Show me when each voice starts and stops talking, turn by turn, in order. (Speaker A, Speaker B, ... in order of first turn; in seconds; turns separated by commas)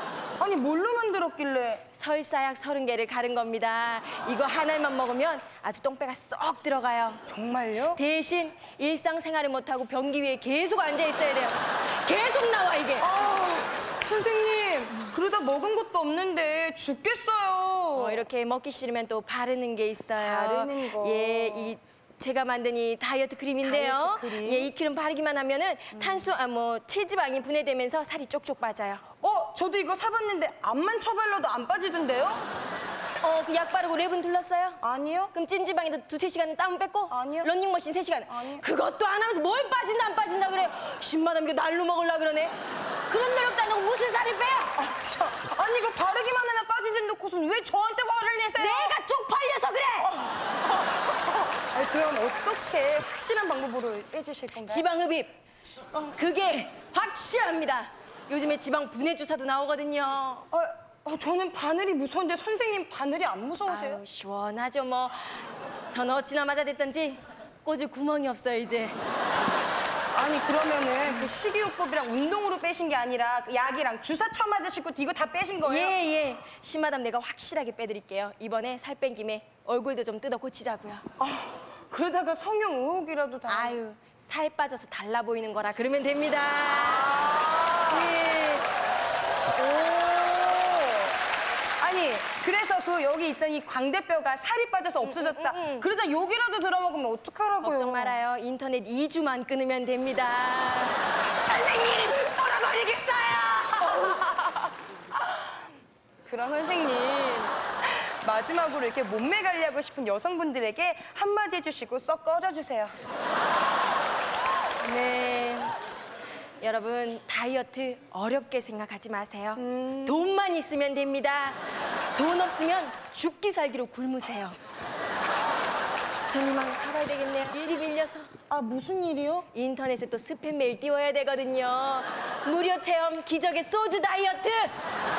Speaker A: 0.4-1.8, Speaker B: 1.9-7.2, Speaker A: 7.3-8.0, Speaker B: 7.9-13.1, Speaker A: 13.0-18.3, Speaker B: 17.9-29.0, Speaker A: 20.1-21.8, Speaker A: 23.6-24.7, Speaker A: 25.9-26.3, Speaker A: 29.2-32.5, Speaker B: 33.2-34.8, Speaker A: 34.8-35.3, Speaker B: 35.3-42.5, Speaker A: 37.1-37.5, Speaker A: 38.3-38.6, Speaker B: 43.1-44.7, Speaker A: 44.7-49.0, Speaker B: 48.5-50.1, Speaker A: 50.0-54.8, Speaker B: 54.6-55.3, Speaker B: 56.0-60.5, Speaker A: 60.5-64.0, Speaker B: 63.7-69.0, Speaker A: 70.1-76.0, Speaker B: 75.6-81.0, Speaker A: 81.2-83.8, Speaker B: 83.5-87.2, Speaker A: 86.7-88.2, Speaker B: 87.9-88.6, Speaker A: 89.6-91.2, Speaker A: 91.8-98.2, Speaker B: 95.0-95.9, Speaker B: 97.6-101.0, Speaker A: 101.4-104.5, Speaker A: 106.2-112.9, Speaker B: 114.8-115.8, Speaker B: 116.6-124.6, Speaker A: 119.6-120.3, Speaker B: 126.3-128.3, Speaker A: 128.5-129.5, Speaker B: 129.5-134.7